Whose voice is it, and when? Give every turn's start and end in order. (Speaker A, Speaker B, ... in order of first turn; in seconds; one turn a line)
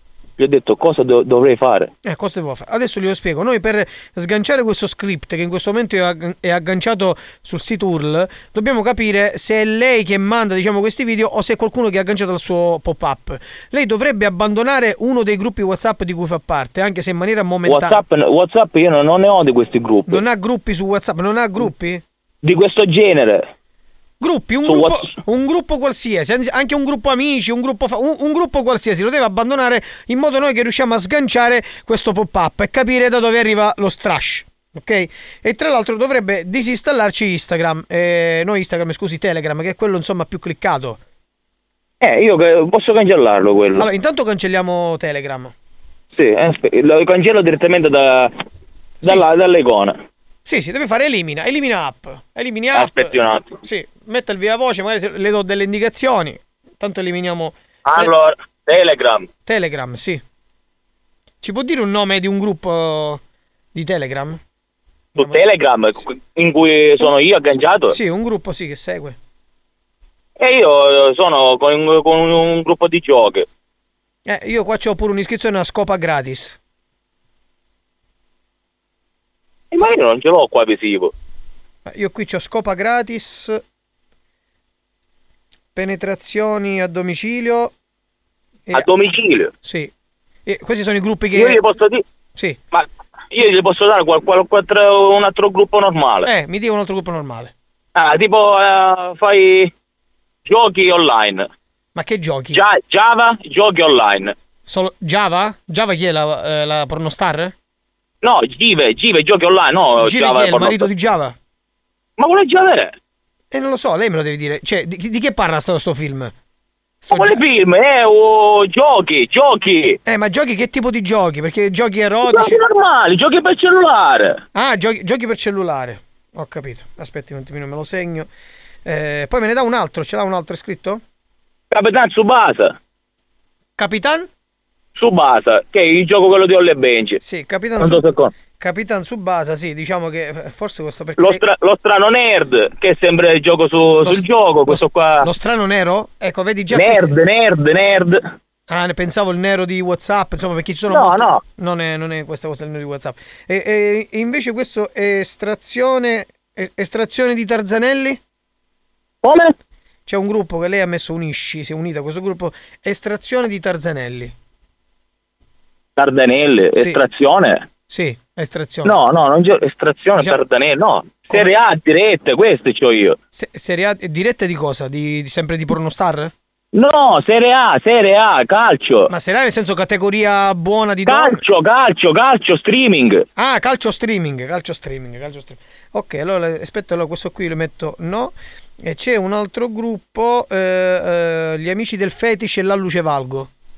Speaker A: 0.4-1.9
Speaker B: 2.0-18.0
Speaker A: 17.6-20.2
Speaker B: 20.1-22.0
Speaker A: 22.4-23.4
Speaker B: 24.2-41.0
Speaker A: 24.6-25.1
Speaker A: 42.0-43.9
Speaker B: 43.8-45.5
Speaker A: 46.1-48.3
Speaker B: 49.0-49.3
Speaker A: 49.0-50.0
Speaker B: 50.4-58.1
Speaker A: 52.7-53.6
Speaker A: 57.9-59.3
Speaker B: 59.4-60.2
Speaker B: 61.4-63.2
Speaker B: 63.7-64.4
Speaker A: 65.2-67.9
Speaker B: 65.2-65.4
Speaker B: 67.9-69.2
Speaker A: 70.4-73.5
Speaker B: 74.2-76.6
Speaker A: 79.7-81.1
Speaker B: 81.8-83.6
Speaker B: 85.7-87.7
Speaker A: 88.7-89.5
Speaker B: 89.6-89.9
Speaker B: 90.5-91.6
Speaker A: 91.3-92.0
Speaker A: 92.7-96.3
Speaker B: 96.2-97.5
Speaker A: 98.0-99.7
Speaker A: 100.5-101.5
Speaker B: 102.0-102.6
Speaker A: 102.5-104.3
Speaker B: 104.7-107.5
Speaker A: 108.2-110.9
Speaker B: 110.0-111.3
Speaker A: 112.2-112.9
Speaker B: 113.5-116.3
Speaker B: 117.0-117.4
Speaker A: 117.1-120.0
Speaker B: 120.0-122.6
Speaker A: 122.3-124.4
Speaker B: 124.5-128.3
Speaker B: 128.8-131.0
Speaker A: 131.7-132.8
Speaker B: 133.8-134.3
Speaker A: 134.9-137.2
Speaker B: 137.2-141.4
Speaker A: 137.8-138.3
Speaker A: 141.2-145.2
Speaker B: 144.0-147.1
Speaker A: 146.7-148.2
Speaker B: 148.7-158.2
Speaker A: 150.9-151.4
Speaker A: 159.2-159.5
Speaker B: 160.1-164.3
Speaker A: 166.0-167.7
Speaker B: 166.7-167.0
Speaker B: 167.9-169.0
Speaker A: 168.8-173.2
Speaker B: 170.2-170.5
Speaker B: 171.2-171.6
Speaker B: 173.3-176.3
Speaker A: 176.7-179.1
Speaker B: 179.1-181.4
Speaker A: 181.1-183.2
Speaker B: 183.3-193.5